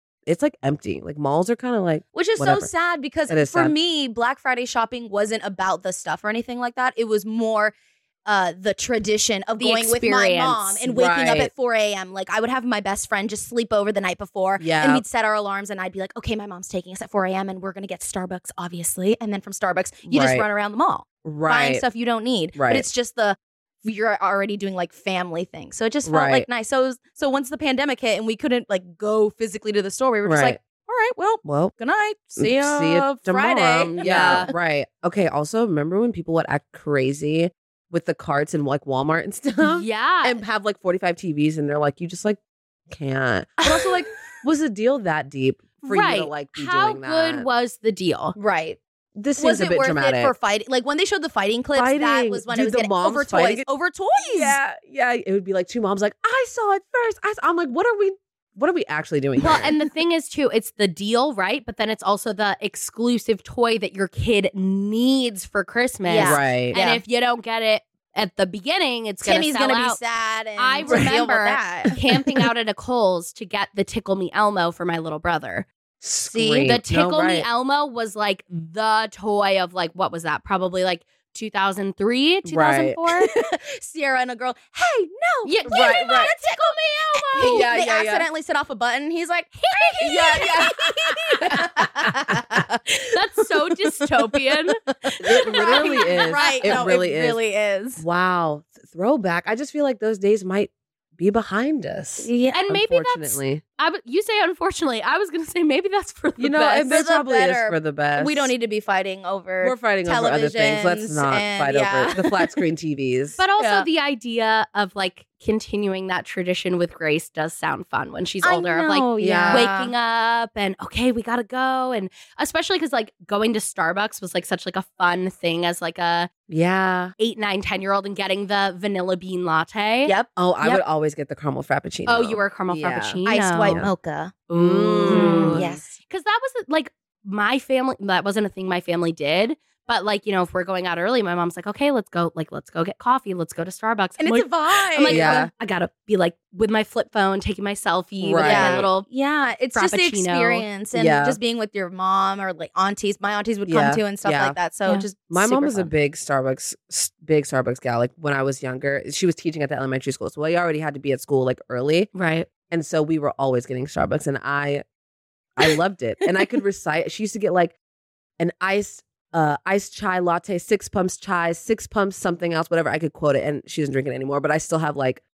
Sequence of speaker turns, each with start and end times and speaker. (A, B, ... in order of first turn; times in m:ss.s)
0:00.2-0:02.7 A
0:02.1-0:07.7 B
0:03.3-0:03.7 A
0:08.2-0:34.5 B
0:09.6-0:10.8 C
0:10.9-0:11.5 A
0:14.6-0:15.0 A
0:20.1-0:20.4 A
0:21.2-0:21.8 A
0:22.6-0:22.9 A
0:26.0-0:26.5 A
0:30.2-0:30.6 A
0:31.4-0:31.7 A
0:32.4-0:47.5 A
0:34.0-0:34.5 C
0:39.6-0:40.4 C
0:45.8-0:48.4 C
0:48.4-0:48.8 B
0:49.2-0:50.3 A
0:49.4-0:54.6 B
0:51.7-0:59.7 A
0:59.4-1:10.0 C
1:06.0-1:07.0 B
1:06.2-1:06.8 A
1:09.2-1:12.0 B
1:10.6-1:15.7 C
1:16.0-1:17.5 A
1:16.3-1:23.4 C
1:22.4-1:23.2 A
1:23.3-1:33.1 B
1:25.4-1:27.7 C
1:25.6-1:26.3 A
1:27.4-1:28.3 A
1:29.7-1:30.5 C
1:30.0-1:32.6 A
1:33.1-1:34.8 C
1:34.3-1:38.0 B
1:35.2-1:37.4 A
1:35.3-1:36.9 C
1:38.0-1:43.6 A
1:42.2-1:42.6 B
1:42.5-1:46.9 C
1:46.4-1:48.5 A
1:46.8-1:52.5 B
1:49.6-1:53.4 A
1:53.4-2:06.3 C
1:53.6-1:53.9 B
1:58.4-1:59.9 B
1:59.2-1:59.7 A
2:06.5-2:07.1 A
2:07.2-2:10.1 C
2:10.0-2:10.8 B
2:10.4-2:13.9 A
2:12.0-2:13.8 C
2:13.2-2:14.4 B
2:14.5-2:29.1 C
2:14.5-2:15.8 A
2:15.0-2:15.9 B
2:24.2-2:25.5 B
2:25.0-2:25.5 A
2:28.2-2:28.9 A
2:28.4-2:35.9 B
2:29.7-2:30.6 C
2:30.9-2:31.4 A
2:33.6-2:34.6 A
2:35.3-2:42.1 A
2:42.1-2:42.5 C
2:42.7-2:44.8 A
2:45.6-2:47.7 A
2:48.4-2:55.2 A